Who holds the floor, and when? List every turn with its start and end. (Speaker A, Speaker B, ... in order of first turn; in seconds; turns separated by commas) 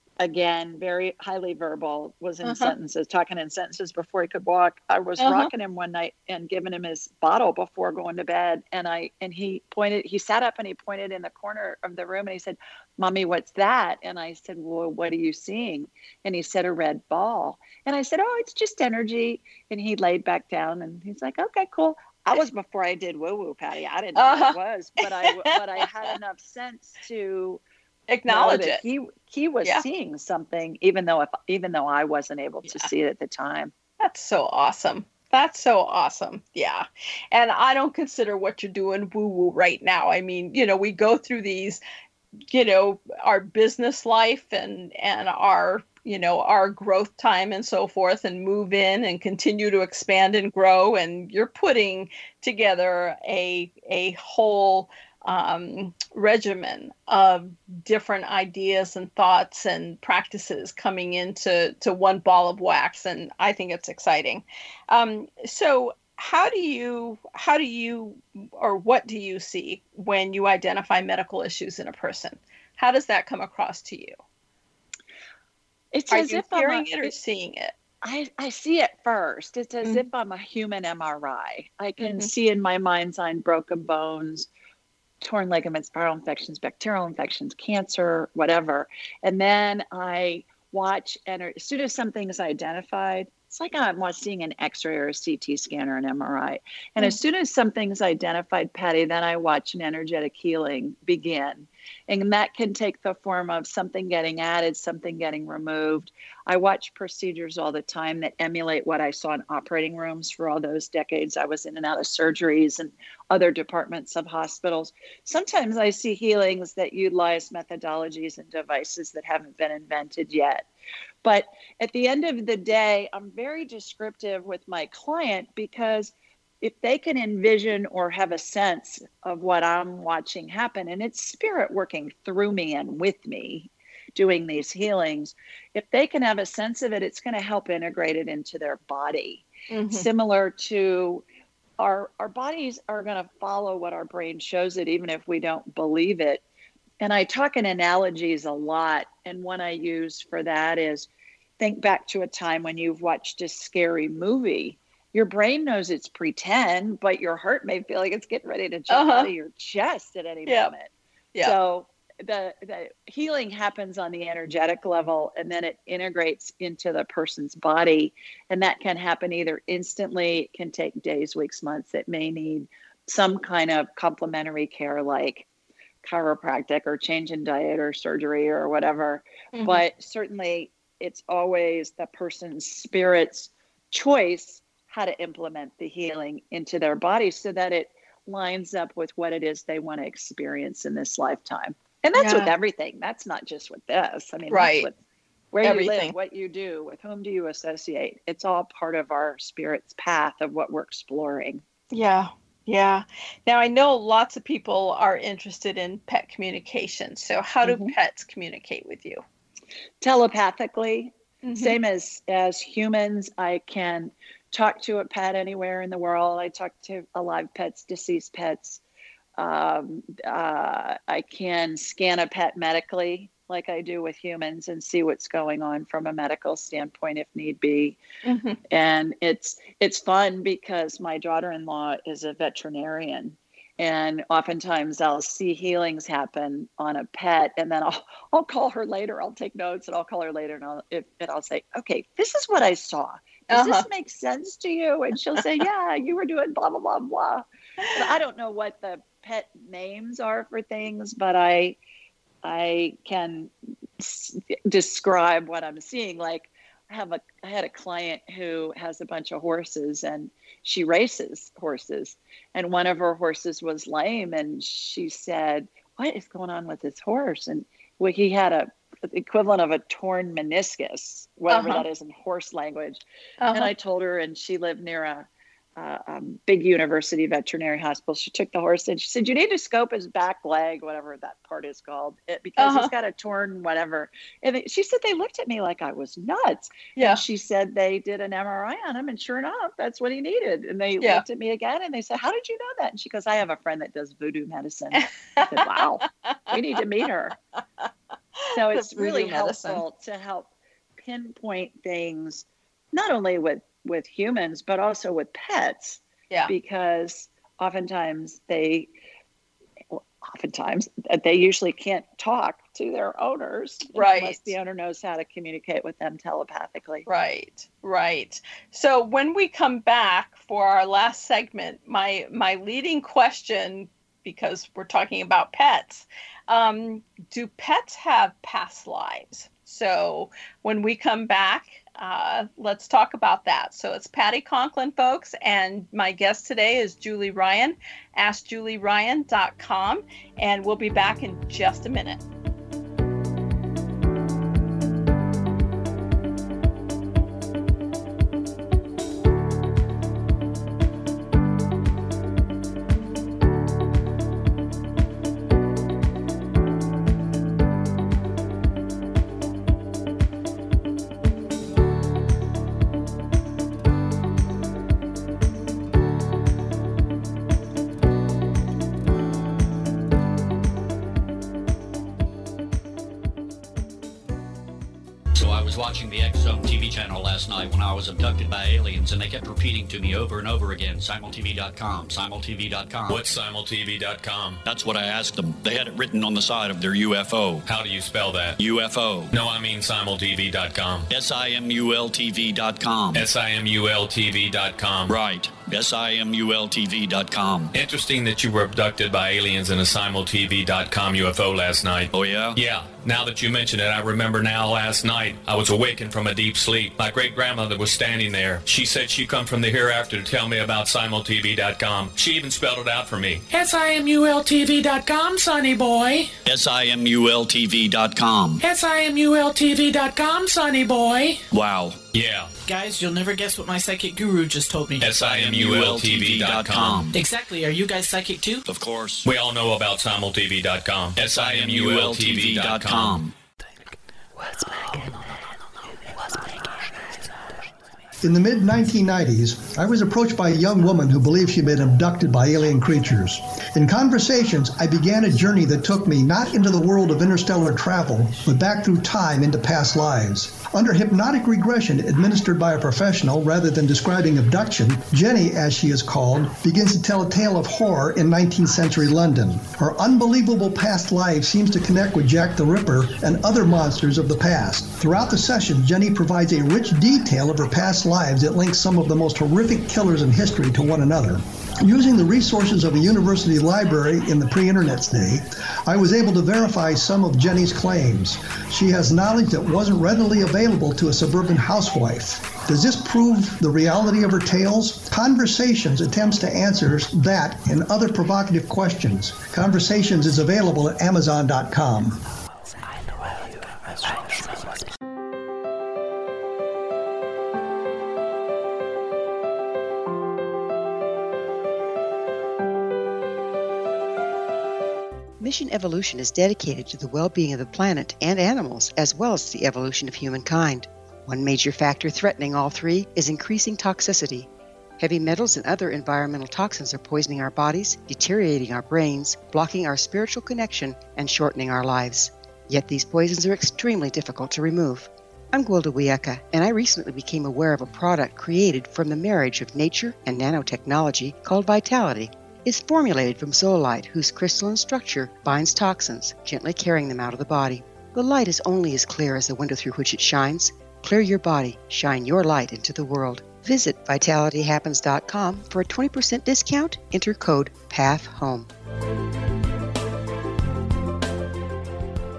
Speaker A: 0.2-27.6, Speaker B: 2.4-2.7, Speaker B: 5.2-5.5, Speaker B: 24.1-25.8, Speaker B: 28.1-28.8, Speaker A: 28.3-33.7, Speaker B: 34.0-41.8, Speaker B: 42.5-74.2, Speaker A: 75.9-77.1, Speaker B: 76.1-77.7, Speaker A: 78.0-84.5, Speaker B: 82.0-82.3, Speaker A: 85.2-120.7, Speaker A: 121.2-141.2, Speaker B: 139.7-140.1, Speaker A: 141.8-146.4, Speaker A: 147.0-151.1, Speaker A: 151.6-160.9, Speaker B: 158.9-159.3, Speaker B: 160.4-160.7, Speaker A: 161.4-175.4, Speaker A: 176.0-194.9, Speaker B: 179.5-179.8, Speaker B: 192.2-192.5, Speaker B: 194.5-194.9, Speaker A: 195.5-201.6, Speaker B: 195.6-196.1, Speaker B: 201.9-209.2, Speaker A: 207.6-207.9, Speaker A: 210.0-218.8, Speaker B: 211.4-211.8, Speaker A: 219.4-228.0, Speaker B: 228.2-228.6, Speaker A: 228.7-251.8, Speaker B: 243.5-243.8, Speaker A: 252.4-273.0, Speaker B: 271.5-271.8, Speaker B: 273.4-273.7, Speaker A: 273.5-297.4, Speaker B: 282.6-282.9, Speaker B: 286.9-287.2, Speaker B: 295.4-296.6, Speaker B: 297.8-299.8, Speaker A: 298.5-308.9, Speaker A: 309.9-317.1, Speaker B: 313.9-314.5, Speaker B: 317.1-342.2, Speaker C: 375.3-383.2, Speaker D: 383.1-384.6, Speaker C: 384.6-387.6, Speaker D: 387.7-388.6, Speaker C: 388.6-389.3, Speaker D: 389.3-391.1, Speaker C: 391.1-393.3, Speaker D: 393.1-395.1, Speaker C: 395.1-397.7, Speaker D: 397.7-413.4, Speaker C: 402.1-402.6, Speaker E: 413.5-416.3, Speaker C: 416.4-418.6, Speaker E: 418.6-421.4, Speaker C: 421.5-422.0, Speaker D: 422.1-422.5, Speaker E: 422.6-425.2, Speaker D: 425.0-427.1, Speaker C: 425.1-427.2, Speaker E: 427.1-428.6, Speaker C: 428.6-429.3, Speaker D: 429.2-433.2, Speaker C: 431.2-433.3, Speaker F: 438.2-492.2, Speaker G: 505.4-514.5, Speaker G: 515.0-548.7